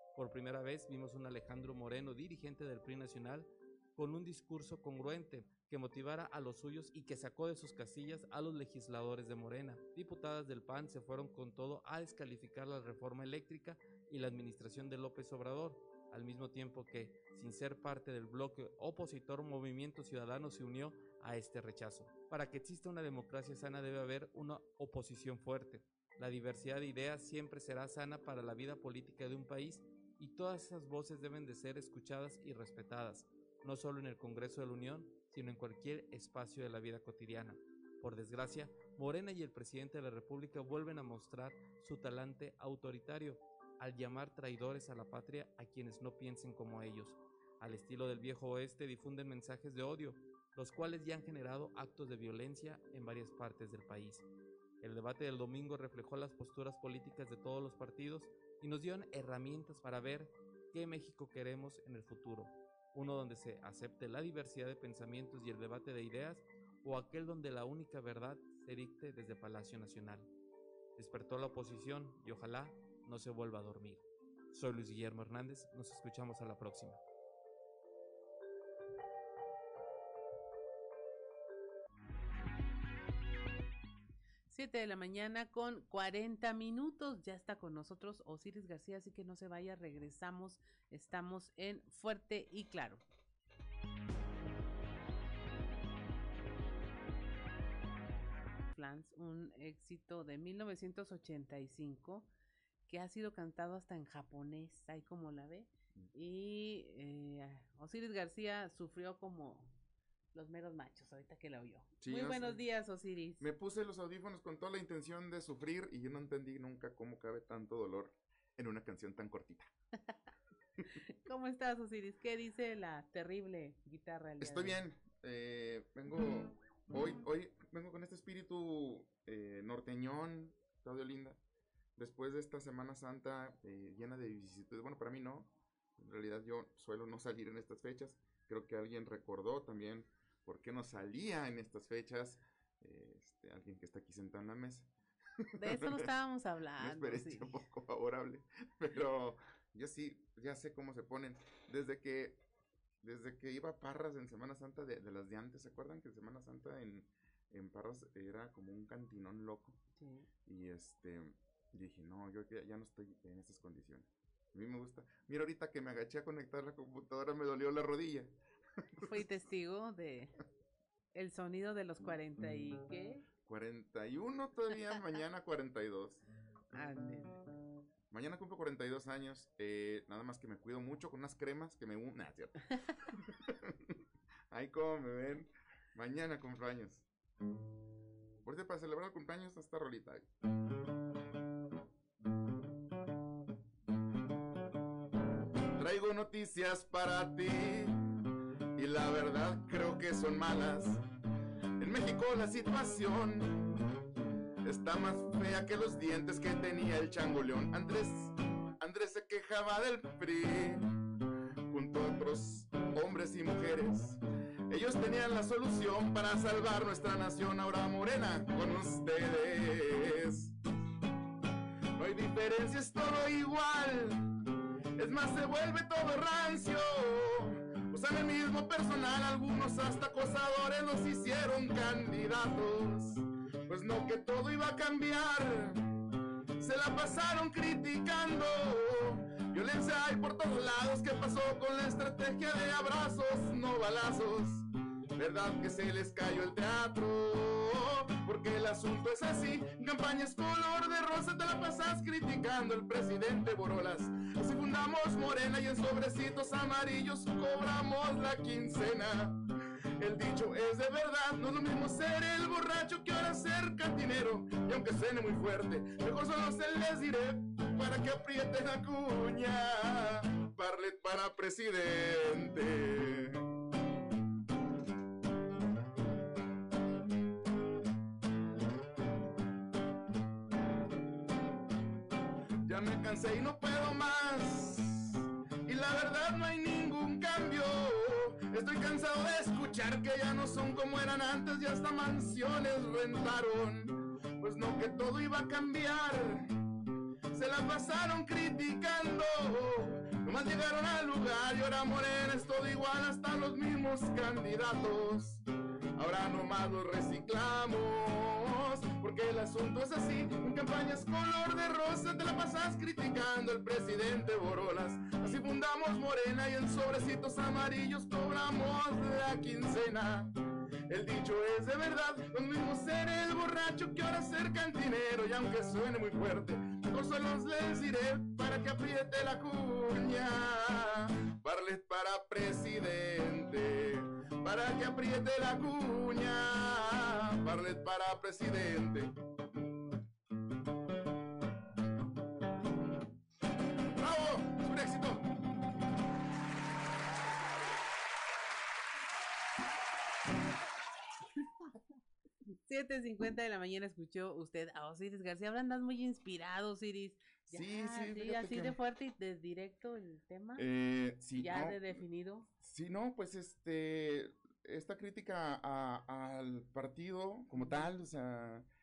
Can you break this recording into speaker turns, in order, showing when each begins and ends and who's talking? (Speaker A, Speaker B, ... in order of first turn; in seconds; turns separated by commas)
Speaker A: 0.1-54.2, Speaker A: 54.8-70.3, Speaker A: 71.0-77.0, Speaker B: 84.5-93.0, Speaker B: 98.7-102.3, Speaker B: 102.9-109.8, Speaker B: 110.3-113.5, Speaker C: 112.0-112.6, Speaker C: 113.4-119.7, Speaker B: 121.2-124.8, Speaker C: 124.4-131.4, Speaker C: 132.0-144.9, Speaker B: 145.6-147.6, Speaker C: 145.6-146.1, Speaker C: 146.8-152.4, Speaker C: 153.0-159.8, Speaker B: 160.0-160.3, Speaker C: 160.5-168.3, Speaker B: 169.0-170.3, Speaker B: 171.2-173.2, Speaker C: 173.4-176.2, Speaker B: 176.7-177.4, Speaker C: 178.1-183.7, Speaker C: 184.5-187.1, Speaker C: 188.4-190.3, Speaker C: 195.8-198.0, Speaker C: 198.8-201.0, Speaker C: 201.8-203.7, Speaker C: 204.7-210.9, Speaker C: 211.7-214.2, Speaker C: 214.7-220.5, Speaker C: 222.0-224.2, Speaker C: 225.0-235.8, Speaker C: 236.6-244.6, Speaker C: 245.2-259.4, Speaker C: 260.0-273.4, Speaker C: 282.7-296.5, Speaker C: 297.3-305.4, Speaker C: 306.0-320.3, Speaker C: 320.9-339.1, Speaker C: 344.0-345.3, Speaker B: 352.7-360.7, Speaker C: 357.5-358.8, Speaker C: 360.6-362.0, Speaker B: 361.4-362.5, Speaker C: 362.6-368.7, Speaker B: 367.6-367.9